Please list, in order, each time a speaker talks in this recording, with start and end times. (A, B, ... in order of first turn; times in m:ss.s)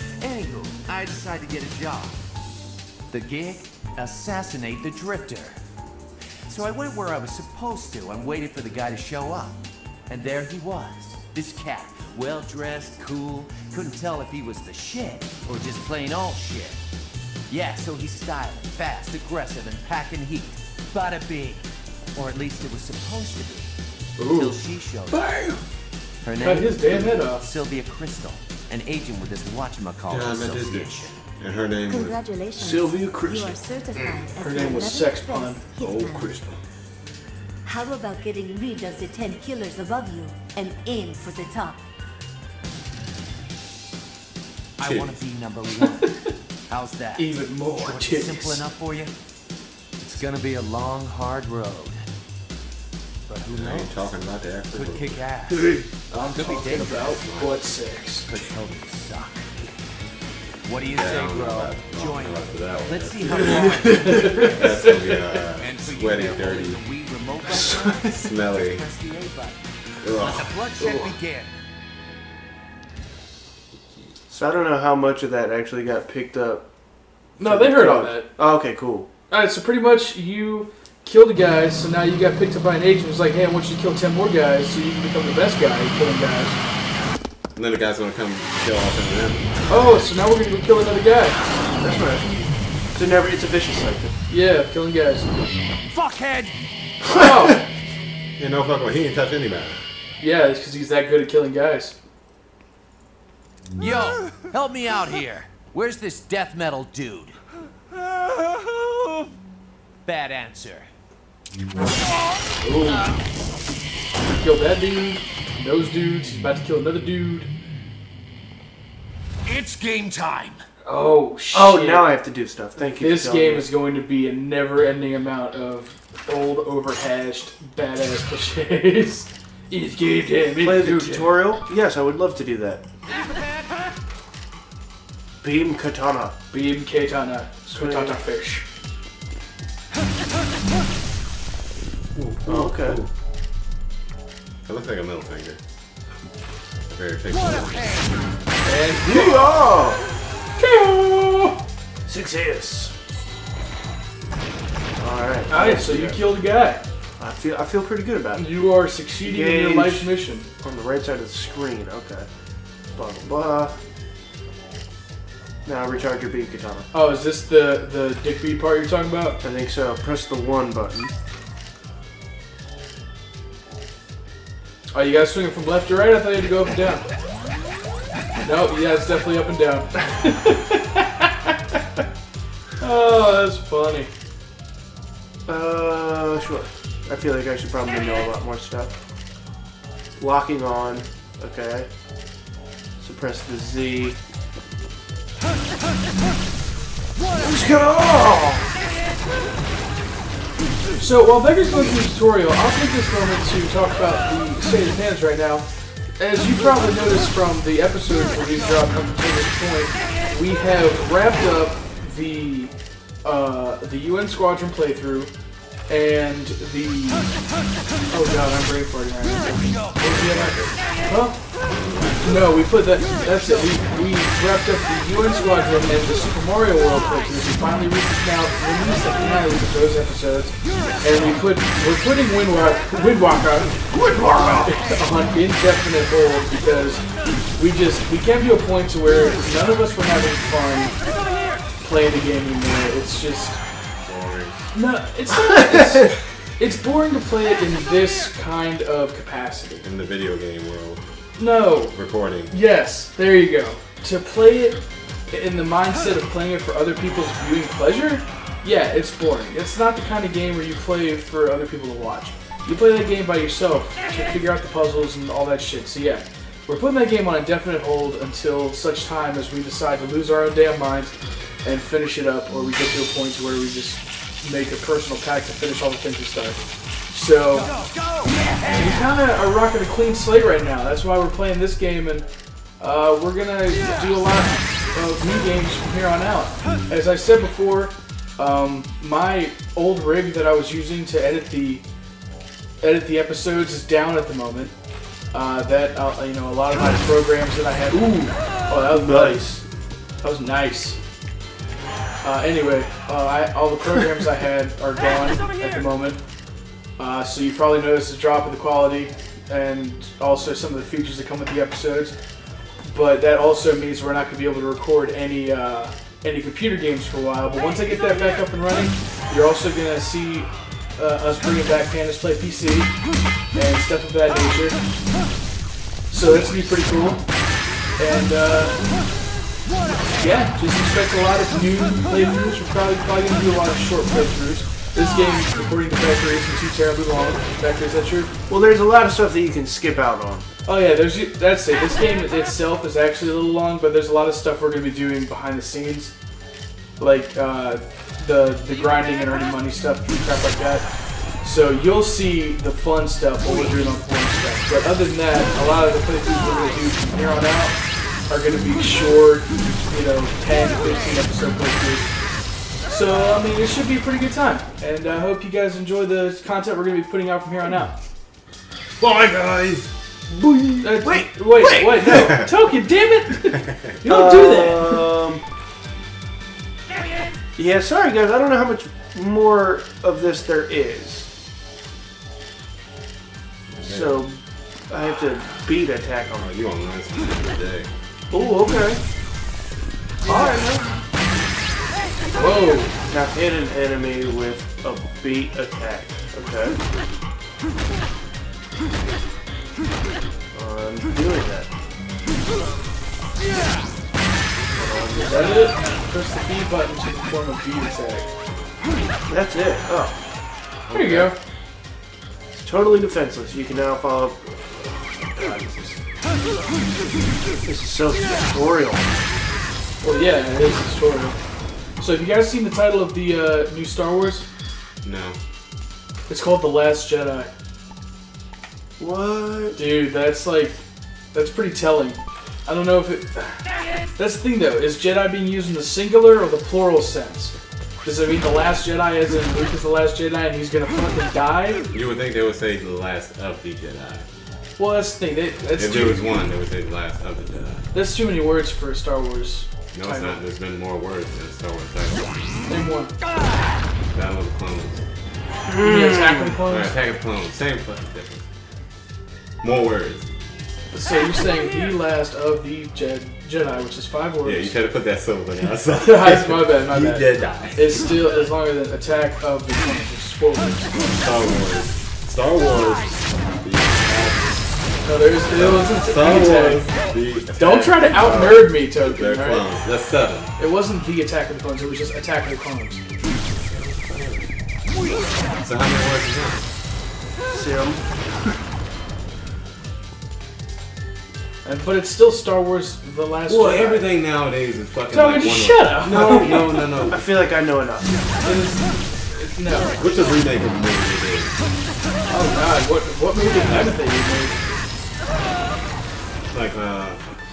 0:00.2-0:02.2 A
0:03.1-0:05.6 A
0:06.5-0:16.8 A
0:17.5-0:23.7 A
0:24.3-0:25.2 A
0:26.2-0:31.2 A
0:26.4-0:27.4 B
0:30.1-0:32.3 C
0:31.8-0:36.4 D
0:32.6-0:33.6 E
0:34.4-0:35.6 B
0:35.8-0:36.6 C
0:37.7-0:41.8 D
0:44.8-0:49.1 A
0:44.8-0:45.2 C
0:47.2-0:48.6 B
0:50.0-0:52.0 A
0:53.3-0:54.2 A
0:53.5-0:55.2 C
0:54.7-0:57.2 A
0:55.5-0:55.8 E
0:56.1-0:58.3 B
0:56.7-0:57.6 C
0:58.2-0:59.5 A
1:00.6-1:05.0 A
1:00.9-1:06.8 C
1:04.0-1:04.4 E
1:05.5-1:09.6 A
1:07.5-1:08.1 E
1:08.0-1:08.9 C
1:10.0-1:10.5 C
1:10.2-1:11.6 A
1:10.8-1:11.2 E
1:14.3-1:16.6 E
1:17.4-1:19.1 E
1:17.4-1:18.3 B
1:19.3-1:26.6 B
1:27.5-1:29.8 C
1:29.7-1:31.4 B
1:31.8-1:34.1 E
1:34.3-1:35.3 B
1:35.9-1:36.6 A
1:37.0-1:37.5 E
1:37.1-1:37.7 B
1:38.4-1:39.8 C
1:40.2-1:41.9 B
1:43.8-1:47.4 A
1:50.0-1:50.9 A
1:52.6-1:53.1 B
1:54.3-1:57.5 B
1:59.4-2:00.6 A
2:00.8-2:02.1 B
2:01.5-2:03.7 E
2:03.0-2:11.4 B
2:10.6-2:12.8 E
2:15.4-2:16.4 E
2:16.5-2:18.6 B
2:17.8-2:18.2 E
2:22.2-2:23.0 E
2:22.2-2:23.1 C
2:24.6-2:25.6 C
2:26.9-2:28.0 C
2:28.6-2:29.6 B
2:29.0-2:30.0 E
2:30.6-2:31.6 B
2:32.1-2:32.9 E
2:35.0-2:36.2 E
2:35.5-2:36.8 B
2:37.2-2:38.6 E
2:38.4-2:40.4 B
2:39.2-2:42.3 E
2:42.9-2:43.8 E
2:45.6-2:46.9 E
2:46.9-2:49.4 B
2:49.4-2:51.1 E
2:54.9-2:57.0 B
2:58.4-3:01.5 B
3:02.8-3:04.1 B
3:05.5-3:08.9 E
3:10.2-3:11.9 E
3:13.0-3:14.2 E
3:17.4-3:18.7 E
3:21.0-3:32.7 B
3:33.2-3:35.3 B
3:35.9-3:37.3 B
3:38.1-3:41.4 B
3:40.0-3:40.8 C
3:41.7-3:42.7 C
3:42.2-3:53.9 B
3:53.9-3:54.7 E
3:54.6-3:57.0 B
3:57.6-4:01.0 B
4:01.8-4:03.6 B
4:04.0-4:04.6 C
4:04.7-4:09.9 B
4:09.8-4:11.0 C
4:11.4-4:12.0 B
4:11.9-4:12.5 C
4:12.5-4:31.1 B
4:31.6-4:37.7 B
4:37.6-4:38.9 A
4:38.7-4:42.2 B
4:42.8-4:51.8 B
4:52.8-4:54.7 B
4:55.3-4:59.6 B
4:58.9-4:59.6 E
5:00.2-5:01.0 B
5:02.2-5:06.2 B
5:07.0-5:12.1 B
5:12.8-5:22.9 B
5:23.5-5:24.8 B
5:26.1-5:27.2 B
5:28.0-5:28.8 B
5:30.1-5:38.3 B
5:38.5-5:40.5 E
5:40.6-5:46.1 B
5:47.0-5:50.9 B
5:51.4-5:57.8 B
5:58.3-6:02.1 B
6:02.8-6:08.0 B
6:09.0-6:09.9 C
6:10.3-6:12.4 E
6:10.8-6:15.1 B
6:14.0-6:15.4 E
6:17.6-6:21.3 E
6:23.7-6:24.2 C
6:23.8-6:26.6 E
6:26.4-6:27.9 C
6:28.3-6:29.0 E
6:30.2-6:30.8 E
6:30.2-6:30.8 B
6:32.3-6:32.9 B
6:33.1-6:36.8 E
6:40.5-6:41.7 E
6:44.8-6:45.7 E
6:45.2-6:48.3 B
6:49.2-6:50.2 E
6:50.9-6:51.3 C
6:50.9-6:51.4 B
6:52.5-6:56.0 E
6:57.6-6:59.1 E
7:00.0-7:01.4 B
7:02.0-7:04.4 B
7:05.0-7:05.4 C
7:06.3-7:07.5 B
7:09.0-7:09.8 E
7:09.8-7:10.8 B
7:11.3-7:21.9 B
7:21.9-7:24.3 C
7:24.8-7:26.5 B
7:25.8-7:27.9 C
7:27.9-7:30.4 B
7:29.9-7:32.6 C
7:32.7-7:33.1 B
7:34.1-7:35.0 C
7:35.7-7:36.6 E
7:35.8-7:37.0 B
7:36.7-7:38.4 C
7:39.6-7:40.3 C
7:40.9-7:44.8 B
7:44.4-7:48.1 C
7:46.0-7:51.0 B
7:51.0-7:54.7 C
7:55.0-7:56.9 B
7:55.4-8:00.5 C
7:57.5-7:59.7 B
8:00.6-8:03.0 B
8:03.6-8:04.5 C
8:05.6-8:06.6 C
8:07.5-8:08.6 E
8:11.6-8:14.1 B
8:13.5-8:17.3 C
8:15.1-8:16.7 B
8:16.0-8:18.1 E
8:18.4-8:20.0 B
8:20.0-8:21.5 C
8:22.3-8:24.6 B
8:26.5-8:27.2 C